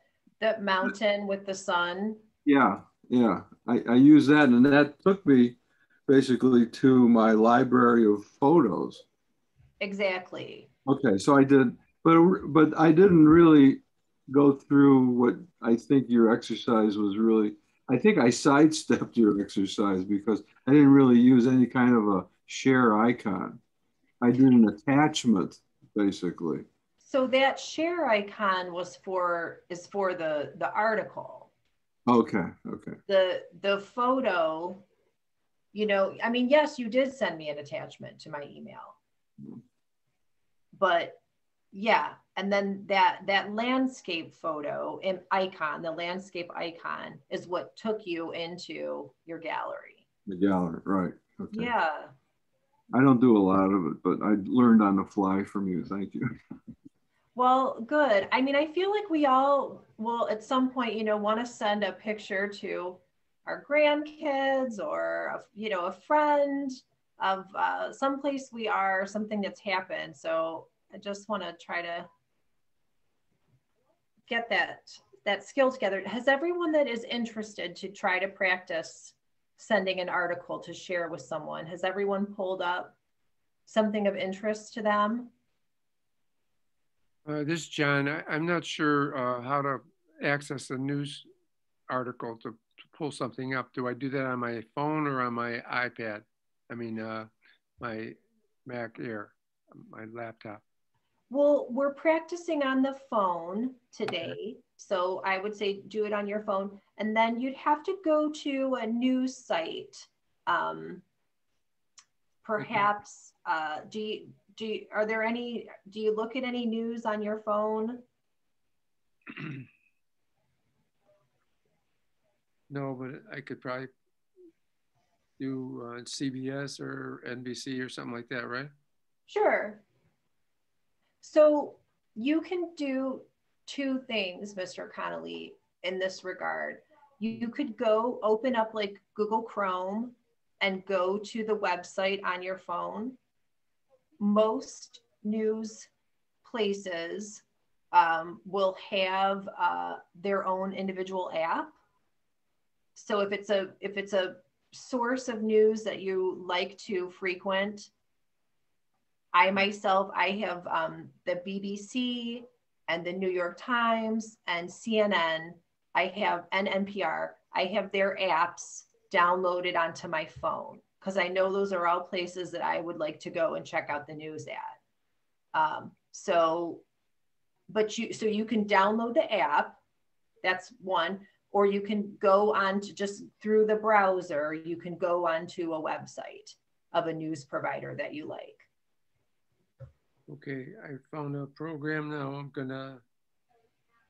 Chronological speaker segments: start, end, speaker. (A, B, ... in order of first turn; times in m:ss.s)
0:00.4-0:02.2 A
0:02.4-0:09.0 B
0:09.8-0:10.7 A
0:10.9-0:23.6 B
0:24.2-0:26.7 B
0:27.0-0:31.5 A
0:32.1-0:33.0 B
0:33.1-0:34.8 A
0:35.7-0:39.0 A
0:40.7-0:41.2 A
0:41.7-0:50.0 A
0:50.3-0:51.7 B
0:51.5-0:52.1 A
0:52.9-0:56.4 B
0:57.4-1:12.1 A
1:14.3-1:23.0 A
1:23.7-1:25.3 A
1:27.3-1:31.3 C
1:31.9-1:40.6 C
1:41.3-1:51.0 A
1:52.4-1:58.0 A
1:59.3-1:59.6 C
2:02.7-2:03.9 C
2:05.4-2:08.7 C
2:09.3-2:09.8 A
2:11.2-2:23.2 A
2:24.2-2:25.9 A
2:26.4-2:31.8 A
2:33.0-2:37.9 A
2:39.3-2:54.8 A
2:55.5-2:56.8 A
2:57.7-2:59.8 A
3:00.4-3:08.7 A
3:10.3-3:13.0 C